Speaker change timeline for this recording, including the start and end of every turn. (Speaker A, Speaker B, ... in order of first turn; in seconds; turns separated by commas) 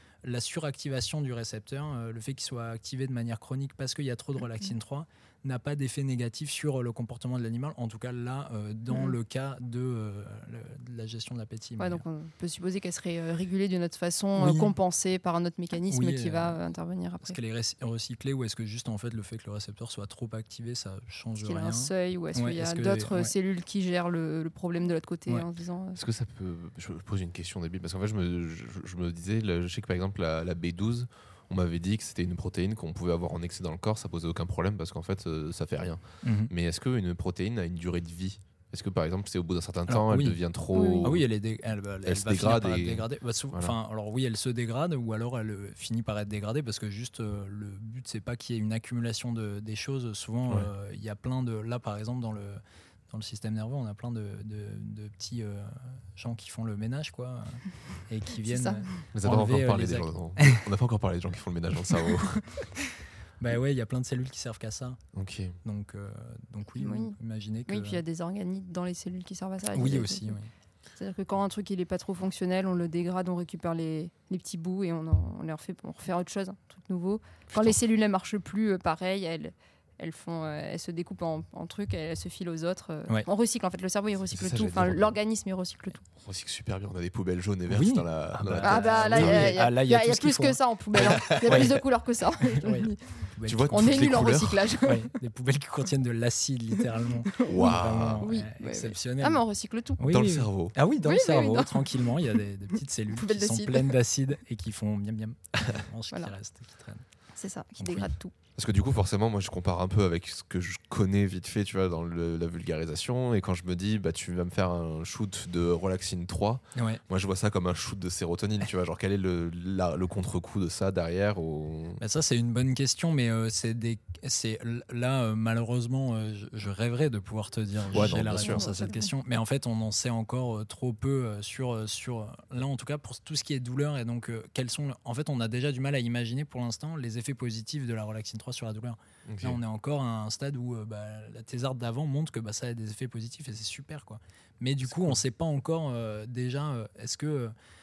Speaker A: 0.2-12.0, Speaker B: 11.8-17.4, Speaker A: 14.4-14.7, Speaker A: 15.9-16.6, Speaker A: 17.2-23.3, Speaker B: 21.4-26.0, Speaker C: 25.9-41.3, Speaker A: 36.2-36.5, Speaker A: 39.9-40.4, Speaker B: 40.7-41.1, Speaker A: 41.0-60.6, Speaker C: 42.0-43.7, Speaker B: 58.4-58.9, Speaker C: 59.1-62.7, Speaker A: 63.4-65.0, Speaker C: 65.1-65.6, Speaker A: 65.6-68.0, Speaker B: 66.8-70.4, Speaker A: 69.7-70.5, Speaker B: 71.0-86.0, Speaker C: 77.5-77.8, Speaker C: 84.3-85.2, Speaker C: 86.2-89.6, Speaker A: 87.7-91.8, Speaker B: 88.6-93.0, Speaker C: 90.9-91.8, Speaker A: 92.4-94.1, Speaker C: 93.5-94.7, Speaker B: 93.7-95.1, Speaker A: 94.8-99.4, Speaker B: 97.2-100.0, Speaker C: 97.5-98.3, Speaker A: 100.0-107.0, Speaker C: 100.0-100.8, Speaker B: 101.0-102.4, Speaker B: 103.1-104.0, Speaker B: 107.4-108.3, Speaker A: 107.8-108.1, Speaker C: 108.6-122.0, Speaker A: 116.8-117.0, Speaker A: 122.0-147.5, Speaker C: 127.9-128.7, Speaker B: 128.4-129.1, Speaker C: 139.3-139.6, Speaker C: 144.8-145.2